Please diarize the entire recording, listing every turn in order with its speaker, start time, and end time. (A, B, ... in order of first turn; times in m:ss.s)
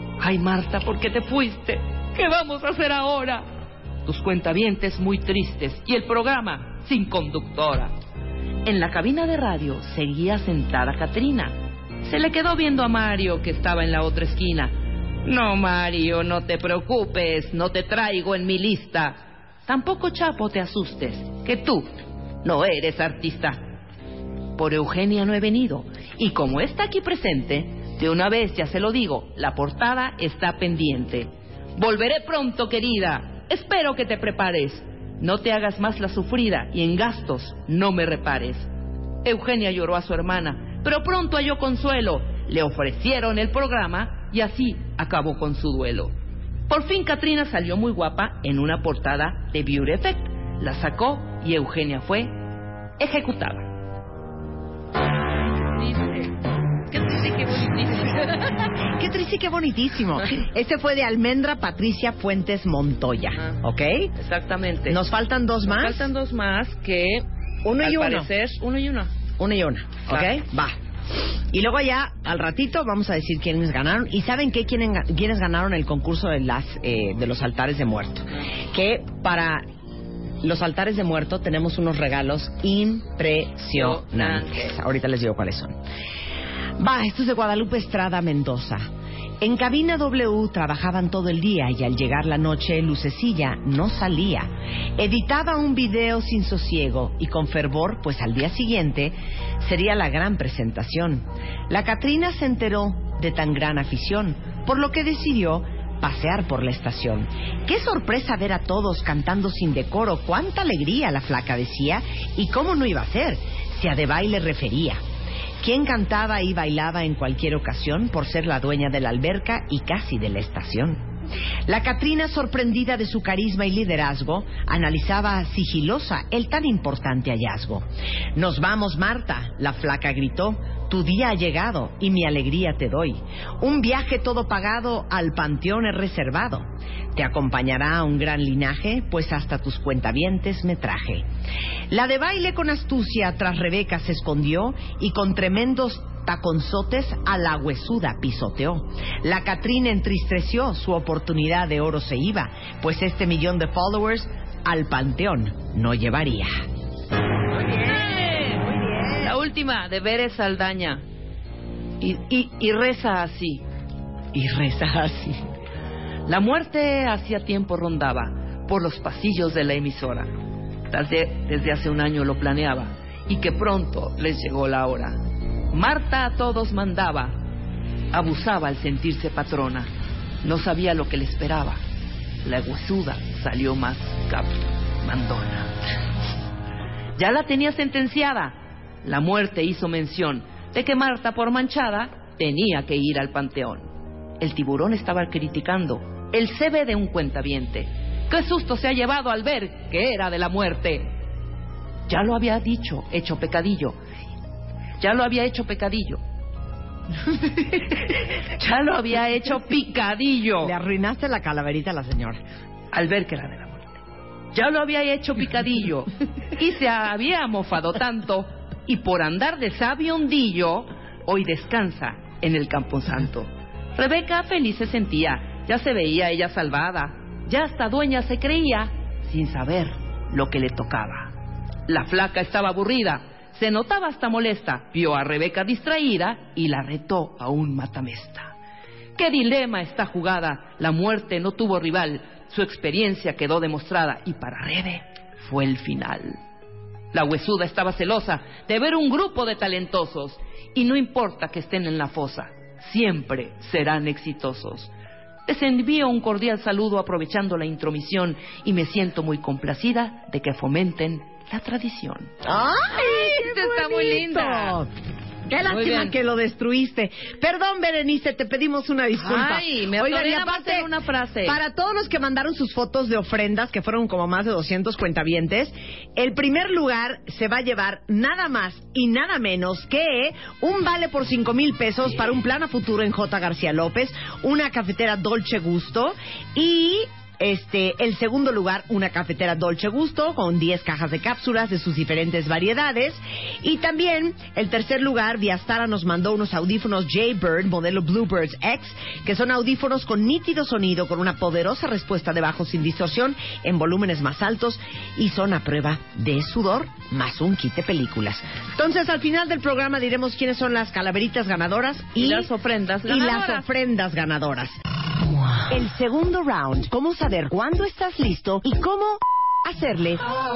0:00.2-0:03.5 A
0:04.1-0:07.9 A
0:08.6-0:21.9 A
0:22.4-0:23.6 A
0:24.6-0:38.7 A
0:39.2-0:46.1 A
0:46.7-0:52.4 A
0:53.0-0:53.7 A
0:55.7-0:56.4 A
0:56.9-0:58.7 A
0:59.0-1:04.1 B
1:04.2-1:05.0 A
1:04.9-1:06.1 B
1:05.7-1:07.2 A
1:07.6-1:08.3 B
1:07.8-1:09.1 A
1:09.4-1:19.6 B
1:20.4-1:25.8 B
1:23.7-1:24.7 A
1:26.8-1:28.9 B
1:29.4-1:55.0 B
1:55.6-2:01.0 B
2:01.7-2:21.3 B
2:21.9-2:36.6 B
2:37.6-2:41.0 A
2:38.8-2:39.1 B
2:42.0-2:43.6 A
2:44.3-2:45.4 B
2:46.3-2:50.3 A
2:50.9-2:55.2 A
2:55.7-2:57.4 A
2:58.1-2:59.9 A
3:00.4-3:01.8 A
3:02.4-3:05.7 A
3:07.2-3:21.1 A
3:22.1-3:24.0 A
3:25.0-3:26.2 A
3:27.6-3:30.7 A
3:30.6-3:32.4 B
3:32.9-3:34.0 A
3:34.5-3:51.3 A
3:51.9-3:58.5 A
3:59.2-4:06.4 A
4:07.1-4:14.9 A
4:15.5-4:22.4 A
4:22.4-4:24.9 B
4:22.9-4:24.8 A
4:25.5-4:30.9 B
4:25.6-4:26.2 A
4:29.2-4:31.6 A
4:31.4-5:12.5 B
5:12.2-5:13.6 A
5:13.1-5:14.8 B
5:15.7-5:20.2 B